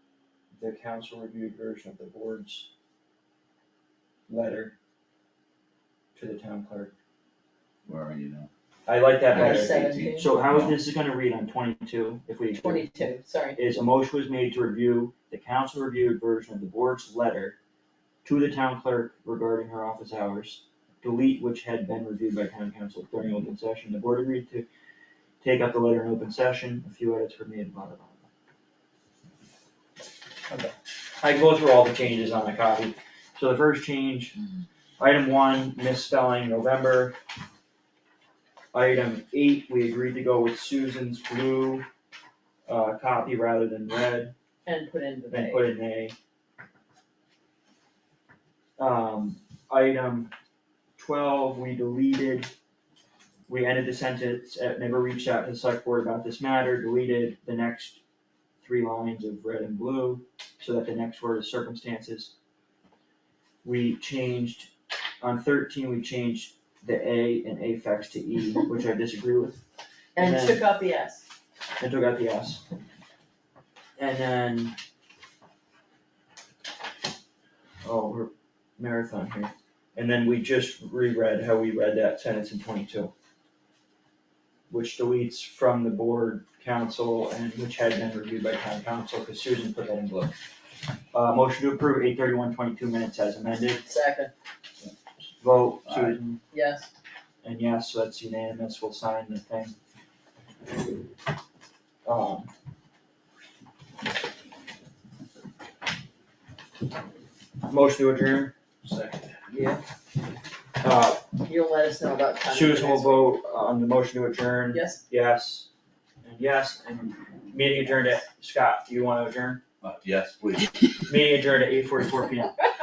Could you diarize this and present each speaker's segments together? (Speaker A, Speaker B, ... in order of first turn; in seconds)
Speaker A: 0.5-2.7, 4.3-4.7, 6.1-6.9, 8.9-12.9, 13.6-17.6, 18.2-24.7, 25.4-28.2, 31.2-34.4, 35.0-37.1, 38.7-41.8, 42.7-44.3, 45.3-46.1, 48.8-50.3, 51.0-52.5, 53.5-58.0, 58.6-62.3, 63.6-69.6, 70.2-70.6, 71.8-72.6, 74.0-74.8, 77.8-83.1, 84.7-90.4, 91.1-93.8, 95.4-96.4, 97.4-99.7, 102.0-102.5, 107.7-108.5, 110.8-111.3, 112.5-115.7, 116.2-119.6, 121.1-122.6
Speaker B: 7.8-8.5, 9.3-10.8, 95.8-96.2, 108.8-109.4, 119.8-120.9
Speaker C: 9.3-10.3, 12.5-13.6, 44.6-45.7, 70.2-71.2, 93.8-94.3, 96.5-96.9, 109.5-109.8, 111.4-113.3, 114.7-115.0